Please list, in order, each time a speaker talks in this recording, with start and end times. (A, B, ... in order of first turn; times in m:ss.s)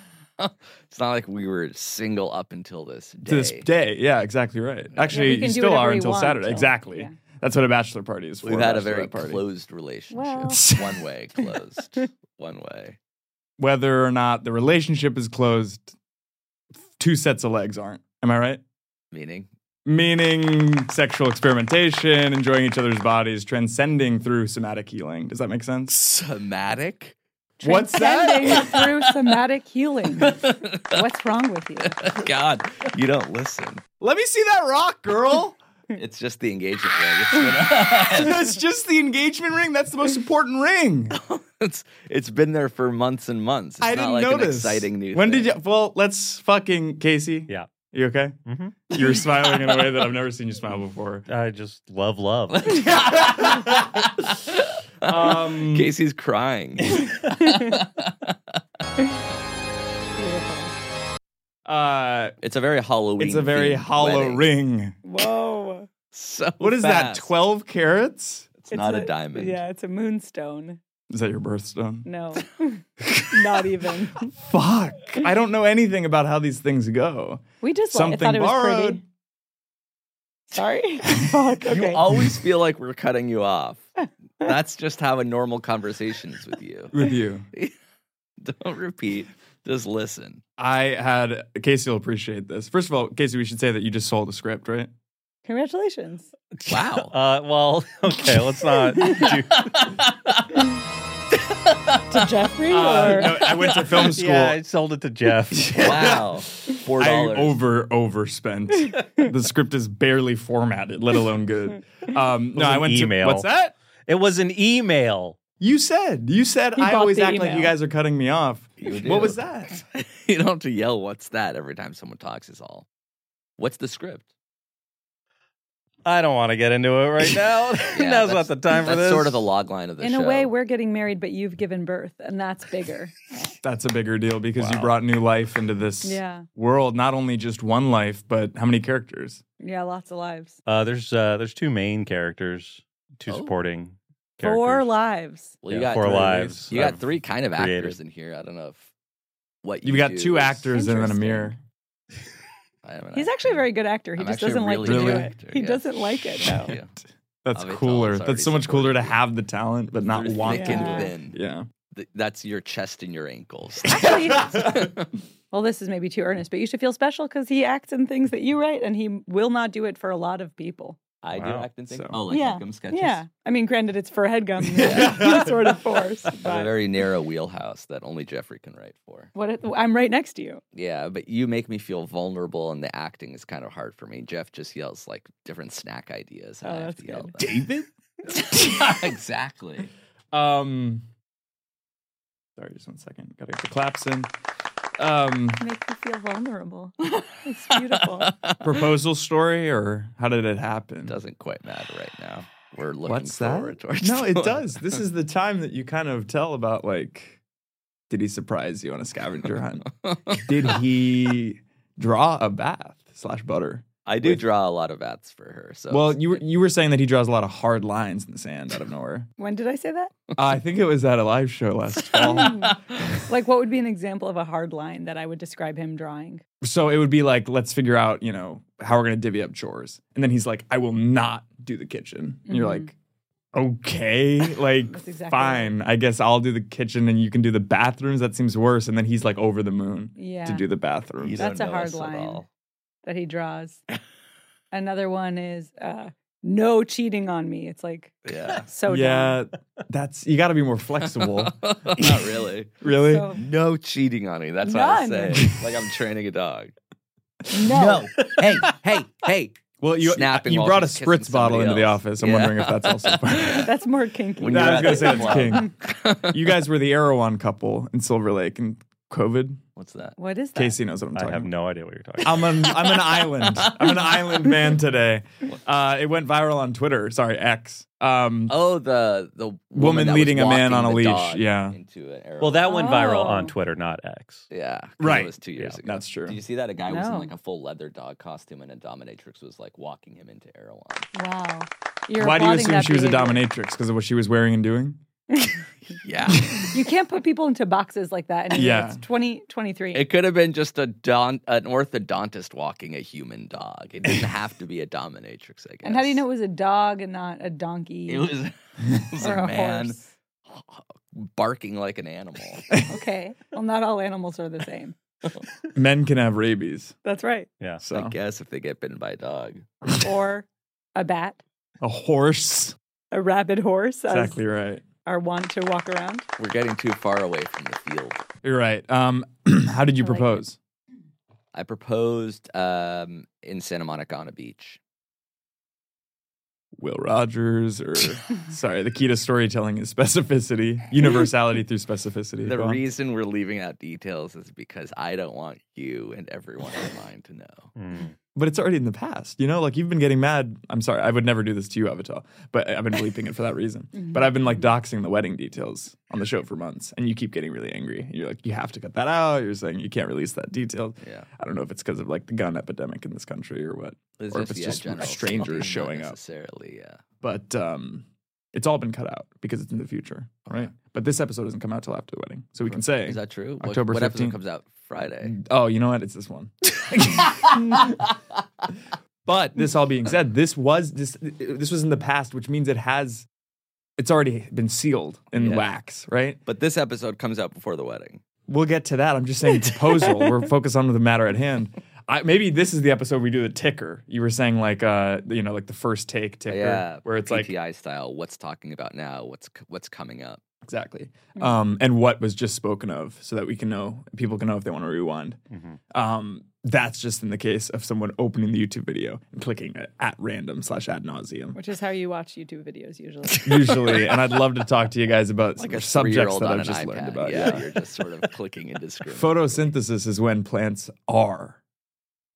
0:00.4-0:03.7 A
0:03.2-0:09.4 B
0:04.9-0:05.4 A
0:05.1-0:07.2 C
0:08.4-0:13.0 A
0:10.1-0:10.7 C
0:10.5-0:11.0 B
0:13.6-0:15.9 B
0:17.0-0:18.6 B
0:19.1-0:19.5 A
0:19.8-0:26.0 B
0:25.9-0:27.2 A
0:27.6-0:32.1 C
0:27.6-0:28.8 B
0:30.2-0:31.0 A
0:31.8-0:33.8 A
0:34.0-0:35.6 B
0:35.9-0:38.4 A
0:37.9-0:41.2 B
0:41.1-0:45.5 A
0:43.8-0:48.4 B
0:48.4-0:48.9 D
0:48.9-0:51.2 B
0:51.3-0:53.0 D
0:52.8-0:58.3 A
0:53.0-0:54.0 B
0:55.0-0:55.9 B
0:57.3-0:57.6 C
1:00.2-1:00.7 C
1:01.6-1:02.3 B
1:02.4-1:04.5 A
1:03.2-1:05.0 B
1:05.0-1:05.9 C
1:06.1-1:07.3 A
1:06.6-1:08.5 B
1:08.6-1:09.6 A
1:08.7-1:10.8 C
1:11.1-1:12.1 B
1:12.0-1:14.3 C
1:13.0-1:13.4 B
1:14.3-1:19.0 B
1:17.6-1:19.0 C
1:20.5-1:22.0 C
1:21.7-1:23.8 A
1:24.4-1:26.9 A
1:26.9-1:27.5 B
1:28.4-1:30.4 A
1:30.6-1:34.9 B
1:35.4-1:36.3 C
1:36.7-1:37.1 A
1:36.7-1:40.0 D
1:39.0-1:40.4 A
1:41.5-1:42.2 A
1:42.1-1:43.4 C
1:42.7-1:44.6 B
1:43.2-1:44.1 A
1:44.1-1:46.2 D
1:45.5-1:46.3 B
1:45.8-1:47.6 A
1:47.0-1:53.7 B
1:52.5-1:53.5 D
1:54.1-1:55.4 D
1:55.6-1:59.8 B
1:56.8-1:57.7 C
1:58.8-2:02.8 A
2:03.6-2:04.3 A
2:06.0-2:09.5 D
2:07.8-2:10.5 A
2:10.0-2:13.5 C
2:13.6-2:19.4 B
2:14.6-2:14.9 D
2:16.0-2:16.4 C
2:19.6-2:20.6 C
2:20.6-2:24.9 D
2:24.4-2:25.5 C
2:25.6-2:28.9 A
2:25.7-2:28.0 D
2:29.6-2:31.5 A
2:29.8-2:31.6 B
2:30.7-2:31.2 C
2:32.8-2:33.6 A
2:33.1-2:36.7 C
2:34.2-2:36.9 A
2:34.8-2:35.3 B
2:36.4-2:36.8 B
2:37.4-2:41.7 B
2:37.5-2:39.1 A
2:40.0-2:41.4 A
2:40.5-2:41.1 C
2:41.9-2:45.1 A
2:43.8-2:44.7 C
2:45.5-2:51.0 C
2:51.2-2:53.2 A
2:51.3-2:51.6 D
2:51.9-2:52.2 B
2:52.3-2:56.7 C
2:54.8-2:55.6 B
2:54.8-2:55.3 A
2:56.4-2:59.3 A
2:59.3-3:00.6 C
3:00.7-3:07.6 A
3:06.6-3:07.4 C
3:07.4-3:08.9 B
3:08.3-3:09.9 A
3:10.3-3:11.0 B
3:12.6-3:14.3 B
3:15.0-3:15.6 B
3:15.6-3:18.3 C
3:18.2-3:18.6 A
3:18.6-3:21.2 B
3:21.1-3:25.0 A
3:23.0-3:27.4 B
3:28.1-3:34.4 B
3:30.0-3:30.4 A
3:34.0-3:36.4 A
3:35.9-3:39.3 B
3:39.4-3:40.1 C
3:40.3-3:42.6 B
3:42.1-3:42.8 A
3:42.1-3:46.4 C
3:46.6-3:52.9 B
3:52.5-3:52.9 C
3:53.5-4:01.5 B
3:54.9-3:55.7 C
4:00.2-4:00.7 C
4:01.2-4:02.5 A
4:01.4-4:02.4 C
4:03.0-4:03.8 C
4:04.7-4:09.4 C
4:08.2-4:08.6 A
4:08.9-4:12.3 B
4:11.0-4:12.7 A
4:12.8-4:13.3 B
4:12.9-4:13.4 C
4:13.3-4:16.7 A
4:14.6-4:15.5 C
4:17.5-4:18.1 C
4:17.6-4:23.7 A
4:19.8-4:23.7 B
4:23.4-4:25.7 C
4:24.4-4:26.4 A
4:24.4-4:29.6 B
4:29.8-4:30.2 A
4:30.2-4:30.8 C
4:30.5-4:31.5 B
4:31.1-4:32.4 D
4:32.2-4:38.6 B
4:32.4-4:34.2 A
4:38.5-4:42.8 A
4:39.8-4:41.8 B
4:42.4-4:44.5 D
4:42.6-4:43.5 C
4:44.5-4:51.1 A
4:45.0-4:46.4 B
4:46.9-4:47.3 C
4:51.1-4:53.4 C
4:52.2-4:55.0 B
4:55.9-4:56.7 A
4:56.6-5:00.1 C
4:58.5-4:59.0 B
4:59.9-5:06.2 A
5:05.8-5:08.3 C
5:08.1-5:10.0 A
5:09.2-5:10.1 C
5:10.5-5:12.7 A
5:12.8-5:15.0 C
5:15.7-5:16.9 B
5:17.0-5:17.5 C
5:17.8-5:18.1 B
5:17.8-5:19.6 A
5:20.0-5:21.4 C
5:21.8-5:22.8 B
5:23.1-5:24.4 C
5:24.1-5:24.8 B
5:25.0-5:26.3 C
5:26.4-5:28.2 A
5:28.4-5:30.6 B
5:30.0-5:30.4 C
5:31.5-5:34.8 A
5:36.8-5:42.8 B
5:42.4-5:47.7 A
5:47.8-5:48.1 D
5:48.4-6:06.2 B
6:01.0-6:01.3 A
6:04.2-6:07.0 A
6:07.2-6:14.4 B
6:10.4-6:10.7 A
6:12.7-6:15.4 A
6:15.2-6:17.9 B
6:17.3-6:18.1 A
6:19.2-6:23.3 B
6:24.0-6:26.4 B
6:25.3-6:25.7 A
6:26.4-6:28.2 A
6:28.5-6:37.5 B
6:36.5-6:40.4 A
6:40.6-6:45.4 B
6:45.5-6:45.8 D
6:45.9-6:51.6 B
6:51.5-6:53.8 C
6:53.4-6:57.6 B
6:55.6-6:59.6 A
6:59.1-7:01.6 B